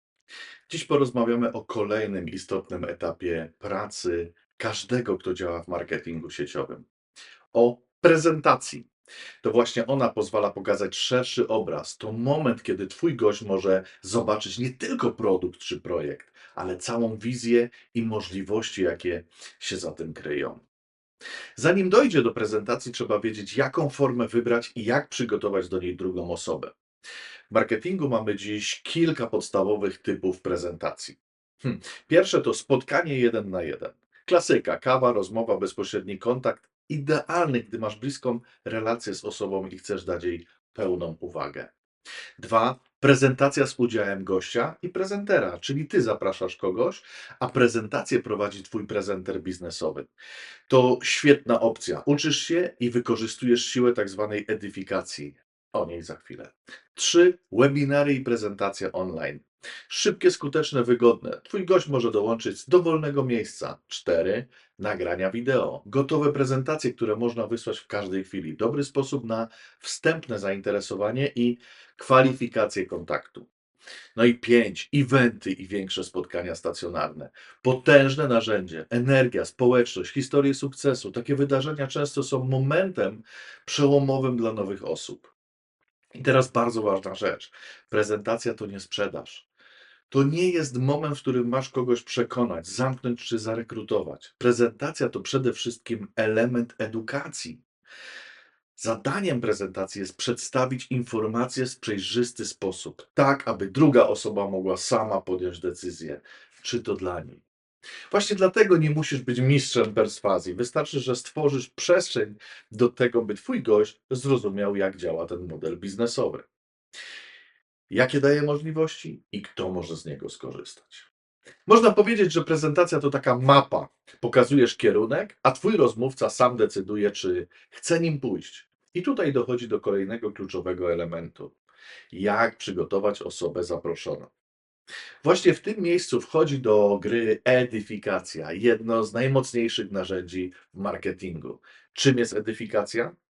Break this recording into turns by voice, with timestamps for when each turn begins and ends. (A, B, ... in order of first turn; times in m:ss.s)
0:00.7-0:06.8 A
0:07.5-0:08.9 A
0:09.4-0:20.6 A
0:21.6-0:26.7 A
0:27.5-0:41.7 A
0:42.4-0:50.1 A
0:50.7-1:13.5 A
1:14.2-1:25.3 A
1:26.2-1:29.4 A
1:30.1-1:37.6 A
1:38.8-1:47.4 A
1:48.1-1:56.5 A
1:57.9-2:01.1 A
2:01.7-2:11.5 A
2:12.1-2:14.3 A
2:15.2-2:23.1 A